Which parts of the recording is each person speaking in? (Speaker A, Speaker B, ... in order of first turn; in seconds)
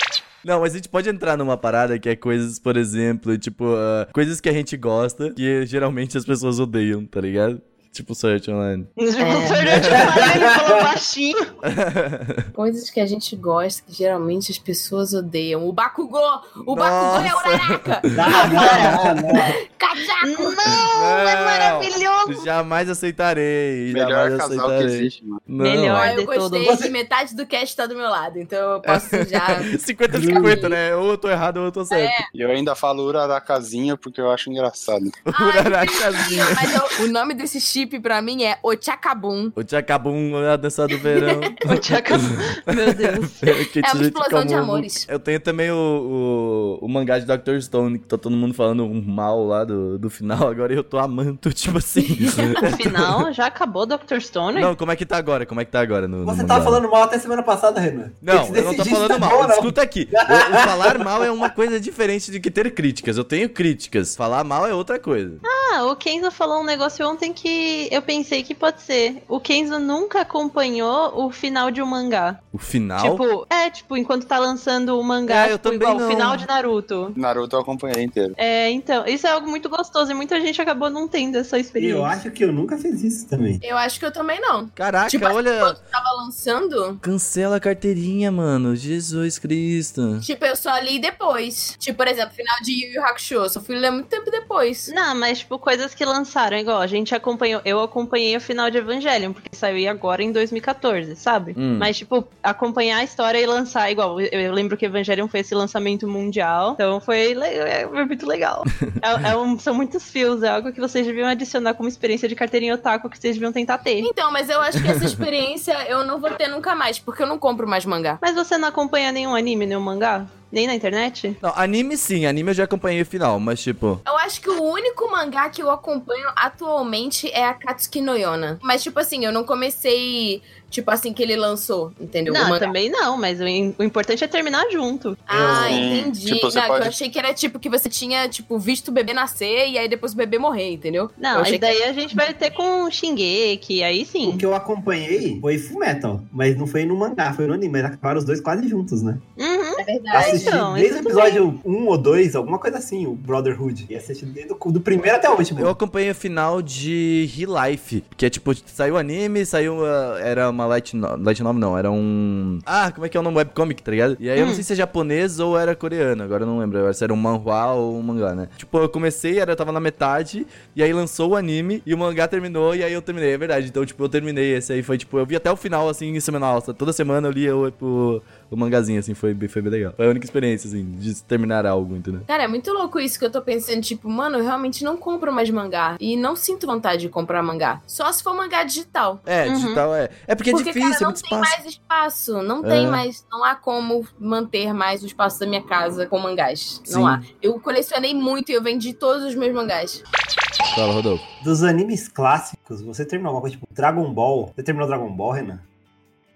Speaker A: 0.4-8.9, 11.7-12.5, 16.7-19.0, 20.8-26.1, 28.9-32.2, 35.3-36.9, 39.6-53.2, 54.5-56.8, 58.2-65.4, 72.5-73.2, 75.3-76.5, 84.8-85.8, 87.0-90.2, 101.6-101.9, 114.8-115.2, 121.4-124.0, 155.6-182.3, 189.3-191.6, 192.6-193.0, 196.9-197.2, 200.7-201.2
Speaker B: 9.0-11.5, 20.2-22.5, 25.6-26.8, 41.6-43.6, 52.6-54.7, 65.4-72.4, 73.0-77.2, 78.4-82.1, 94.9-114.1, 118.2-121.4, 132.3-135.2, 141.2-144.4, 149.4-151.4, 164.4-164.6, 189.4-189.8
Speaker C: 9.2-9.6, 12.5-20.6, 25.9-29.7, 30.2-30.8, 31.9-32.3, 35.4-39.6, 43.8-45.0, 52.1-52.6, 83.6-87.0, 90.2-94.9, 114.0-118.2, 124.0-132.7, 135.3-141.8, 149.8-150.5, 182.3-189.2, 190.5-200.0
Speaker D: 9.8-10.9, 18.1-19.5, 26.6-26.9, 30.1-30.7, 56.2-61.2, 81.8-83.6, 135.3-135.9, 144.2-149.2, 150.1-155.8, 201.4-205.6
Speaker E: 23.9-25.5, 32.3-35.2, 77.2-78.4, 135.5-136.9